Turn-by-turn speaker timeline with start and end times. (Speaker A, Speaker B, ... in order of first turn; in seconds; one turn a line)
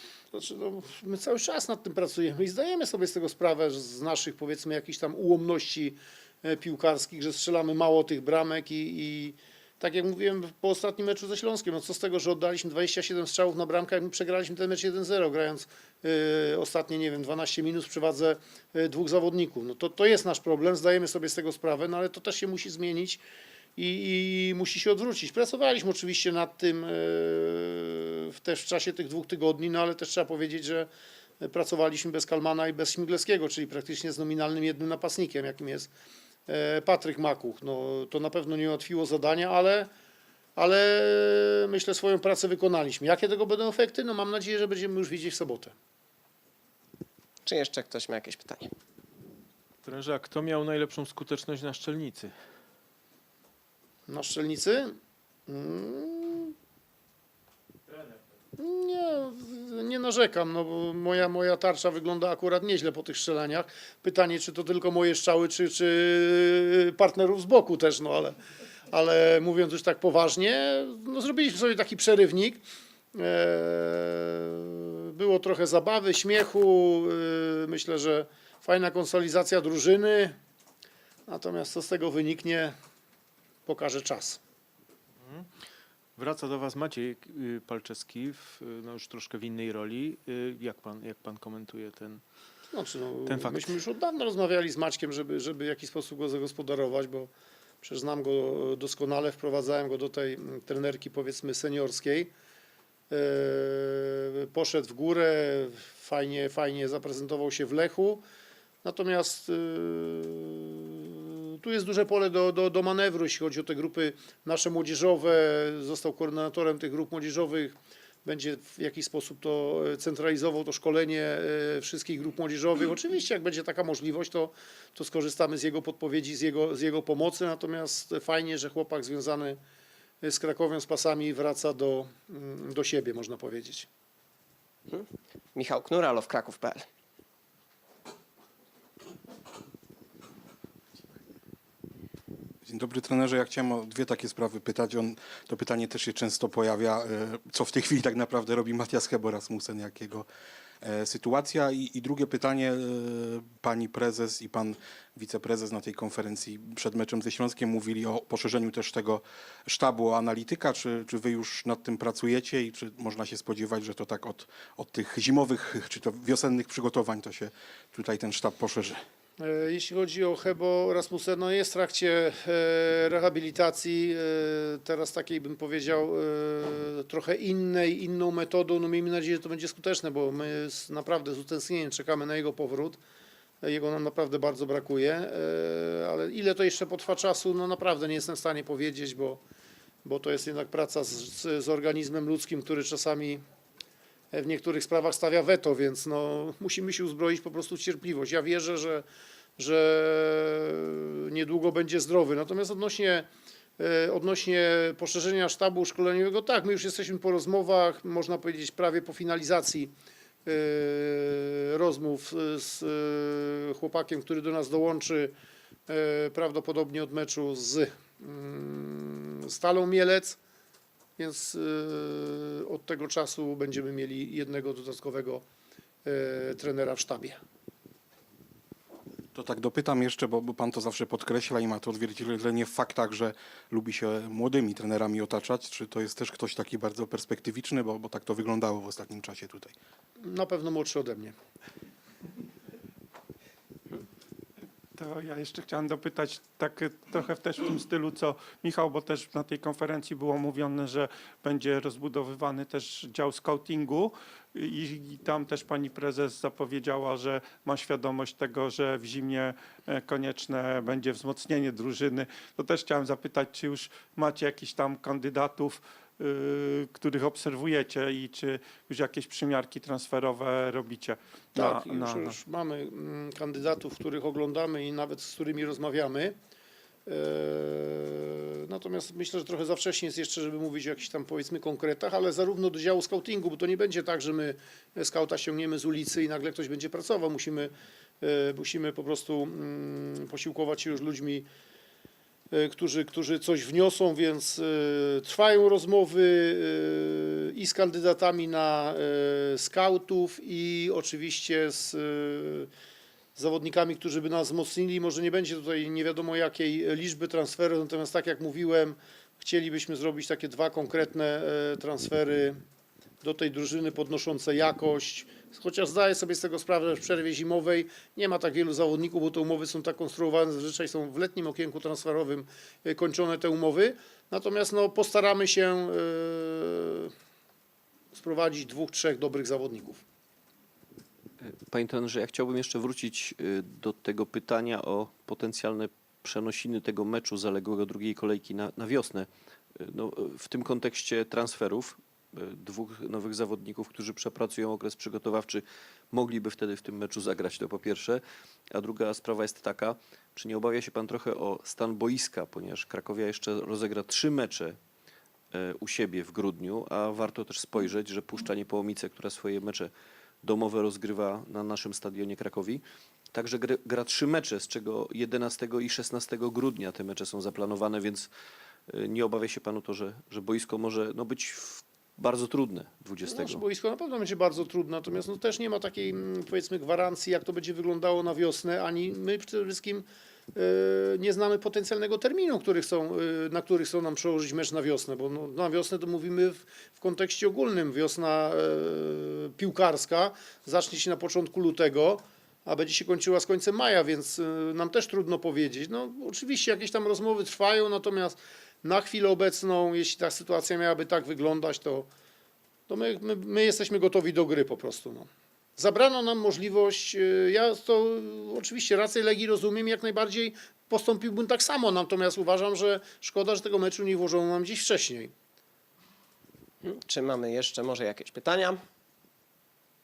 Speaker A: 0.3-23.2
Speaker A: 23.8-30.9
Speaker A: 31.4-35.9
Speaker A: 36.5-39.9
Speaker A: 40.5-45.7
Speaker B: 47.5-48.7
Speaker C: 49.8-52.3
Speaker A: 54.1-54.9
Speaker A: 55.5-56.5
Speaker A: 58.6-68.3
Speaker A: 68.9-72.6
Speaker A: 73.1-80.4
Speaker A: 81.3-82.7
Speaker A: 83.7-84.4
Speaker C: 86.2-92.2
Speaker A: 92.7-97.3
Speaker C: 93.2-93.7
Speaker A: 97.8-102.3
Speaker A: 103.1-108.2
Speaker A: 108.8-129.6
Speaker A: 130.2-133.9
Speaker B: 134.9-136.8
Speaker D: 142.7-150.3
Speaker D: 150.8-169.0
Speaker A: 169.4-183.0
Speaker A: 183.6-189.4
Speaker A: 190.0-193.4
Speaker A: 194.3-199.1
Speaker A: 199.6-209.9
Speaker A: 210.4-215.3
Speaker A: 215.9-220.4
Speaker A: 221.2-225.4
Speaker A: 226.0-227.4
Speaker D: 229.3-239.7
Speaker A: 240.2-241.3
Speaker E: 245.0-272.4
Speaker A: 271.6-276.3
Speaker A: 277.1-291.5
Speaker A: 292.5-302.7
Speaker A: 303.4-312.6
Speaker A: 313.2-327.1
Speaker A: 328.1-330.0
Speaker F: 331.4-339.3
Speaker F: 339.8-348.2
Speaker F: 348.7-354.8
Speaker F: 355.5-359.9
Speaker F: 360.4-368.3
Speaker F: 368.9-373.6
Speaker A: 373.2-402.1
Speaker A: 402.9-415.3
Speaker B: 416.8-418.8